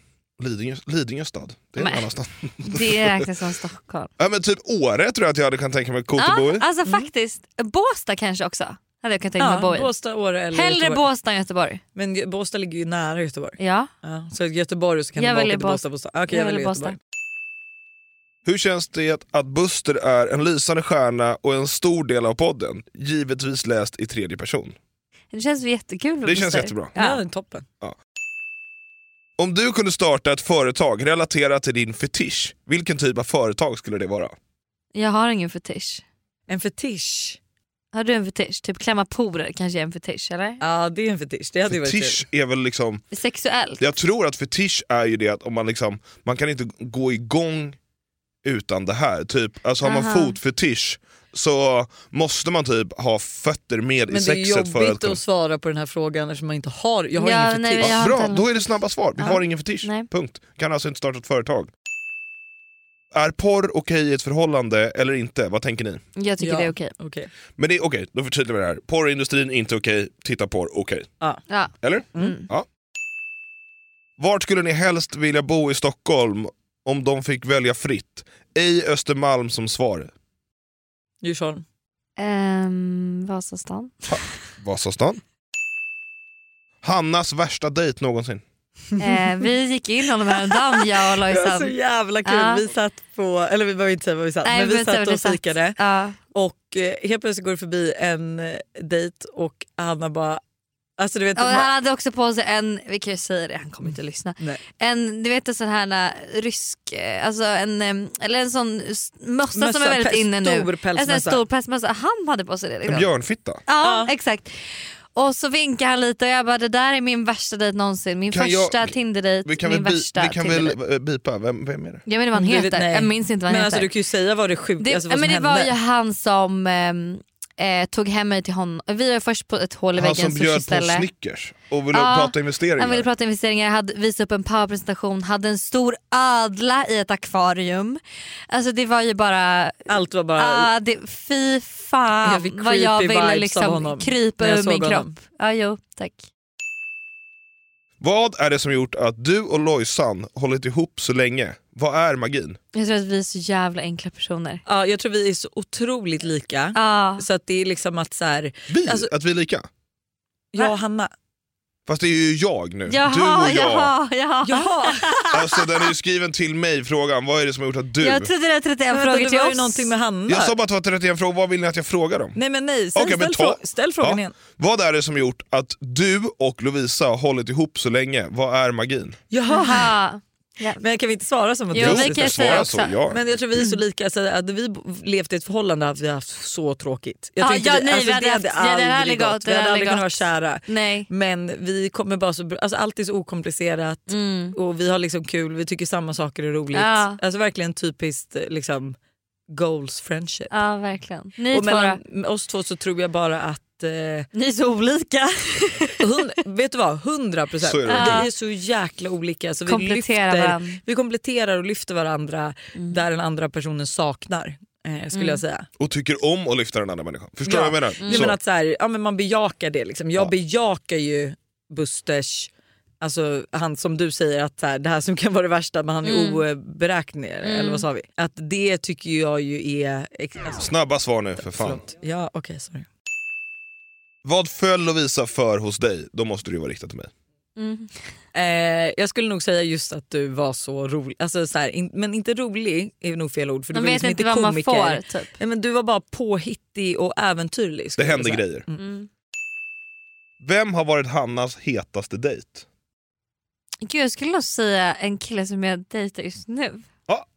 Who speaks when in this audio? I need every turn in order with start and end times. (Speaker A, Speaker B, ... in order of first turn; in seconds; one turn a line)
Speaker A: 0.4-3.3
Speaker B: 1.8-2.1
Speaker B: 2.6-4.1
Speaker A: 4.2-6.7
Speaker B: 6.2-9.9
Speaker C: 9.4-11.0
Speaker B: 10.5-11.8
Speaker C: 11.9-17.0
Speaker B: 13.6-13.9
Speaker B: 15.2-17.0
Speaker A: 18.4-24.8
Speaker B: 25.3-27.2
Speaker A: 26.2-26.9
Speaker C: 26.9-27.6
Speaker A: 29.4-34.3
Speaker B: 34.9-36.0
Speaker C: 36.5-37.4
Speaker B: 37.9-40.6
Speaker C: 40.6-42.2
Speaker A: 41.7-43.0
Speaker B: 43.1-43.8
Speaker A: 43.8-47.8
Speaker A: 48.4-55.2
Speaker B: 49.8-50.4
Speaker C: 54.1-58.0
Speaker B: 57.2-58.5
Speaker A: 57.8-61.7
Speaker B: 59.2-60.1
Speaker A: 63.1-66.0
Speaker B: 66.2-66.9
Speaker C: 66.4-67.3
Speaker A: 67.6-71.1
Speaker B: 71.5-72.5
Speaker A: 71.8-72.7
Speaker A: 74.2-80.1
Speaker C: 81.2-81.6
Speaker B: 82.2-84.2
Speaker A: 84.1-85.2
Speaker A: 86.8-88.4
Speaker B: 89.0-91.7
Speaker C: 90.5-95.8
Speaker B: 92.2-92.6
Speaker B: 94.4-96.2
Speaker C: 96.3-100.4
Speaker C: 101.0-101.7
Speaker B: 101.3-113.1
Speaker C: 109.5-111.4
Speaker A: 112.9-113.6
Speaker B: 113.7-120.8
Speaker C: 113.8-114.1
Speaker A: 118.3-122.0
Speaker B: 122.0-123.9
Speaker C: 122.3-125.7
Speaker B: 124.8-131.1
Speaker A: 129.9-133.1
Speaker B: 131.9-146.2
Speaker C: 139.9-140.7
Speaker C: 142.2-145.1
Speaker A: 148.0-152.6
Speaker B: 152.7-154.6
Speaker C: 154.7-159.1
Speaker B: 156.7-157.2
Speaker A: 158.7-159.7
Speaker C: 160.5-161.1
Speaker A: 161.9-163.9
Speaker B: 162.9-165.7
Speaker C: 164.4-165.2
Speaker A: 165.3-168.3
Speaker B: 168.0-169.9
Speaker C: 168.9-170.6
Speaker A: 170.3-172.4
Speaker C: 172.3-174.3
Speaker A: 172.9-179.2
Speaker C: 179.3-179.9
Speaker B: 179.5-180.8
Speaker C: 180.8-199.0
Speaker B: 181.7-182.9
Speaker A: 181.8-183.3
Speaker B: 187.4-191.1
Speaker B: 194.1-194.6
Speaker B: 196.7-197.2
Speaker C: 199.5-200.5
Speaker B: 200.5-202.0
Speaker C: 201.5-204.3
Speaker B: 204.3-206.0
Speaker C: 206.0-215.7
Speaker A: 207.6-208.3
Speaker B: 207.9-208.3
Speaker B: 209.7-210.8
Speaker B: 212.8-213.0
Speaker B: 215.1-215.4
Speaker A: 215.8-218.3
Speaker C: 217.4-230.7
Speaker B: 218.0-218.3
Speaker B: 226.0-226.4
Speaker B: 227.4-227.8
Speaker A: 230.5-231.8
Speaker C: 231.4-232.9
Speaker A: 234.2-237.1
Speaker B: 237.6-238.0
Speaker C: 238.3-248.8
Speaker B: 243.7-245.3
Speaker A: 248.0-248.6
Speaker B: 248.8-249.1
Speaker A: 250.4-252.6
Speaker B: 253.8-256.8